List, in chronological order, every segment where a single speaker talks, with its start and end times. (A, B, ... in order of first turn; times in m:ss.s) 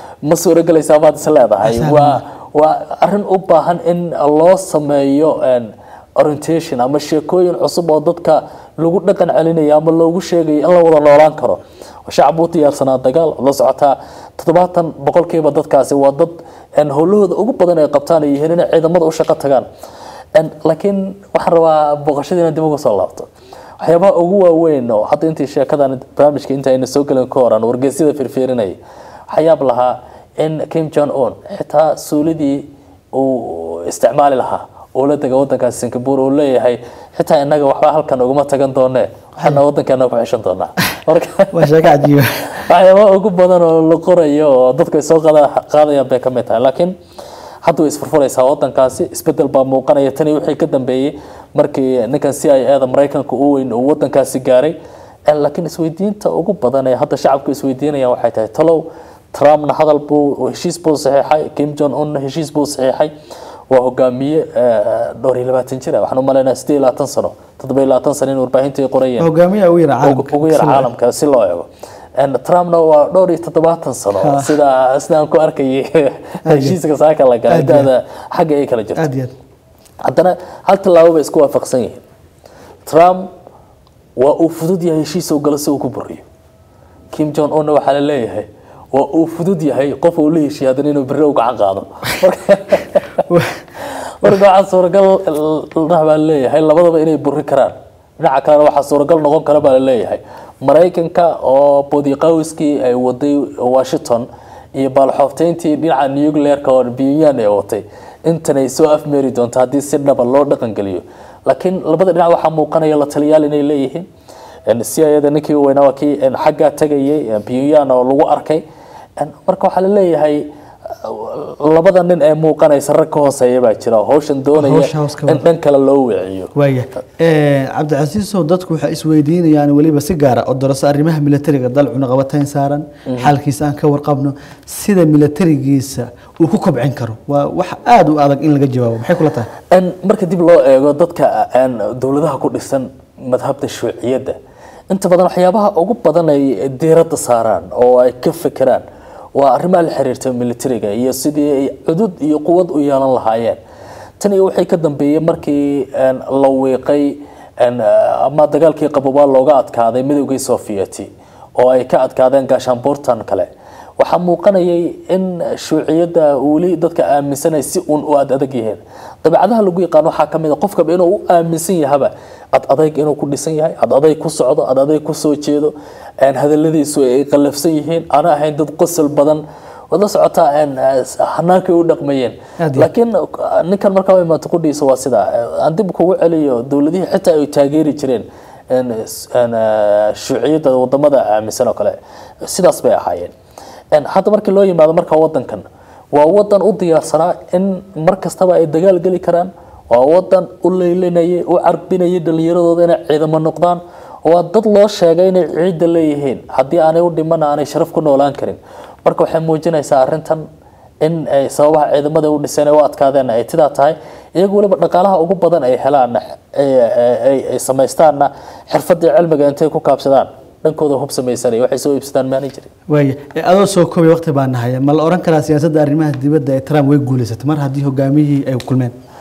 0:00.3-0:19.7 A
0:01.6-0:02.2 B
0:20.4-0:41.8 A
0:41.5-0:42.5 B
0:42.5-0:46.9 A
0:47.6-0:54.7 A
0:55.3-1:03.1 A
1:03.7-1:09.3 A
1:09.2-1:10.9 B
1:10.0-1:19.0 A
1:14.2-1:14.5 B
1:16.4-1:16.8 B
1:17.5-1:17.9 B
1:19.0-1:19.3 B
1:20.0-1:22.0 A
1:22.8-1:23.3 A
1:24.2-1:26.2 A
1:27.1-1:33.2 A
1:33.3-1:33.6 B
1:33.8-1:54.1 A
1:54.7-1:58.6 A
1:59.2-2:06.5 A
2:04.5-2:05.4 B
2:06.5-2:19.5 B
2:13.1-2:13.3 A
2:19.7-2:24.4 A
2:24.9-2:28.8 A
2:29.4-2:33.6 A
2:34.2-3:13.3 A
3:02.6-3:02.9 B
3:13.9-3:30.4 A
3:31.0-3:42.7 A
3:42.9-3:48.9 B